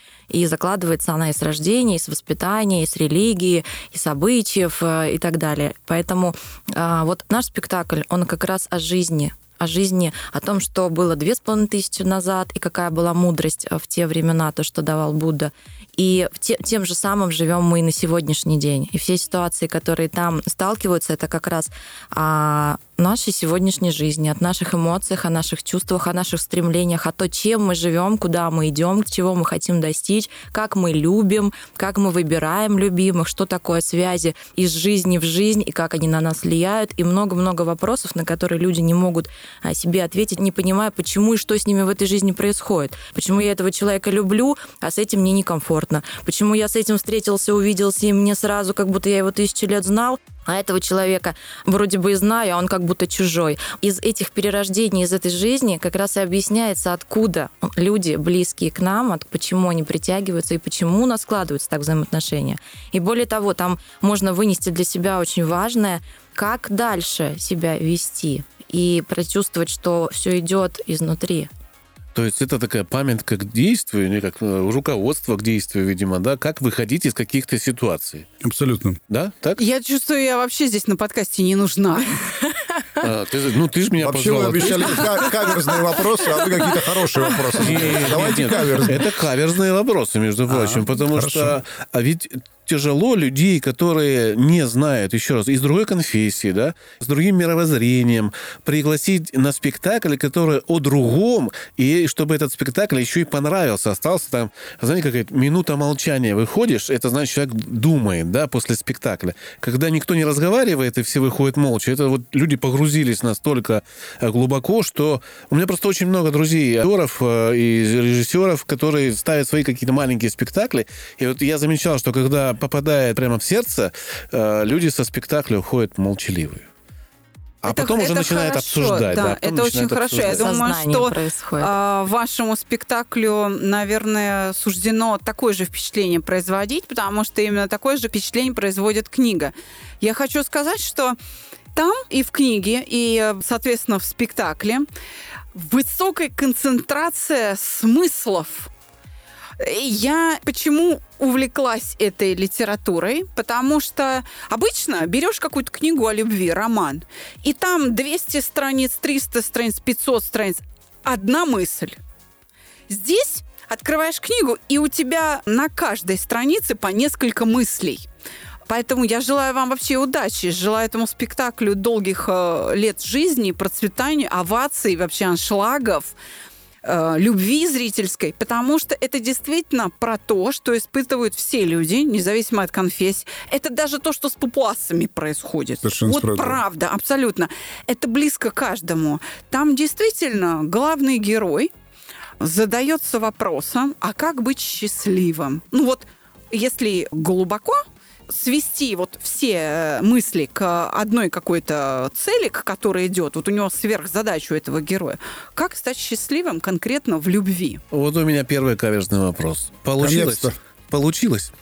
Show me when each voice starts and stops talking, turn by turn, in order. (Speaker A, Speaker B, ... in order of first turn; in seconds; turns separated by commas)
Speaker A: 0.3-71.5, Speaker B: 72.1-78.3, Speaker C: 78.4-79.0, Speaker B: 79.1-79.6, Speaker D: 79.6-82.3, Speaker B: 83.0-85.4, Speaker C: 84.0-89.1, Speaker B: 87.6-126.7, Speaker C: 90.5-91.6, Speaker B: 127.6-130.6, Speaker D: 127.6-141.2, Speaker A: 130.2-131.7, Speaker D: 141.7-144.9, Speaker D: 145.5-148.7, Speaker D: 149.6-162.0, Speaker D: 162.9-168.1, Speaker D: 168.7-176.1, Speaker D: 176.8-191.7, Speaker C: 185.8-186.6, Speaker D: 192.4-207.8, Speaker B: 207.9-211.5, Speaker C: 210.0-210.6